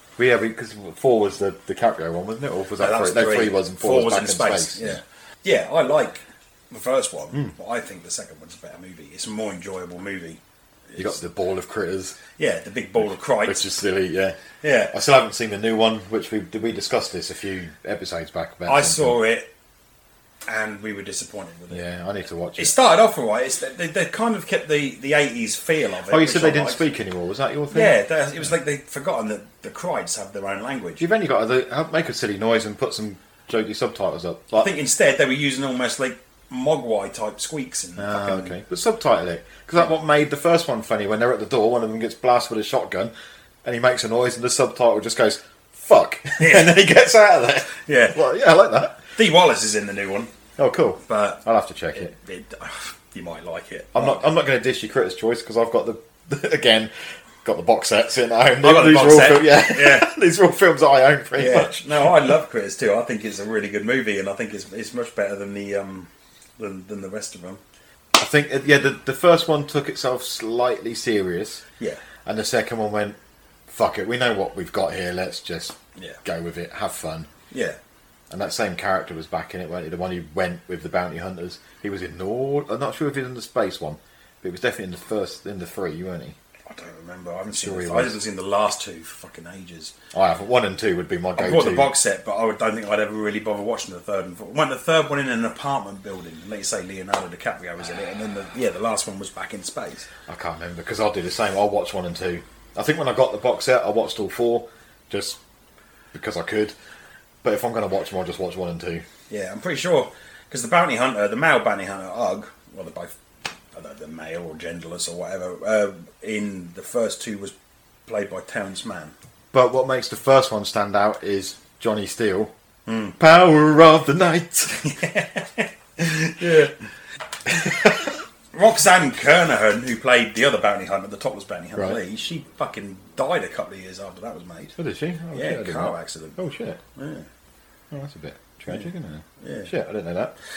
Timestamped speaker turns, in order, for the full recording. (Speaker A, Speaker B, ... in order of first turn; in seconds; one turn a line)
Speaker A: 0.2-5.0
Speaker B: 2.8-11.2
Speaker A: 11.0-12.2
Speaker B: 12.4-13.7
Speaker A: 13.4-14.4
Speaker B: 14.6-14.9
Speaker A: 14.9-19.2
Speaker B: 18.6-19.5
Speaker B: 20.5-21.8
Speaker A: 21.7-22.7
Speaker B: 22.6-26.8
Speaker A: 26.1-28.5
Speaker B: 27.7-31.0
Speaker A: 31.0-34.7
Speaker B: 34.5-38.6
Speaker A: 38.0-49.1
Speaker B: 46.4-46.8
Speaker B: 47.7-48.2
Speaker B: 49.1-50.3
Speaker A: 50.6-52.1
Speaker B: 51.0-51.4
Speaker B: 51.9-54.2
Speaker A: 53.9-56.9
Speaker A: 57.4-62.1
Speaker B: 58.6-60.1
Speaker B: 61.4-67.6
Speaker A: 68.2-71.6
Speaker A: 72.2-77.3
Speaker B: 77.5-77.8
Speaker A: 78.3-86.4
Speaker B: 86.7-89.9
Speaker A: 87.5-88.2
Speaker A: 90.1-91.9
Speaker B: 91.4-100.1
Speaker A: 100.3-105.4
Speaker A: 106.1-106.7
Speaker A: 107.4-109.0
Speaker B: 109.3-113.1
Speaker B: 113.7-117.5
Speaker B: 118.0-119.1
Speaker A: 119.5-122.5
Speaker B: 122.9-123.2
Speaker A: 123.2-124.8
Speaker B: 124.8-126.7
Speaker A: 127.5-128.1
Speaker B: 128.5-134.7
Speaker A: 134.8-136.8
Speaker B: 135.3-136.4
Speaker B: 136.9-137.3
Speaker A: 137.9-140.3
Speaker B: 139.4-139.7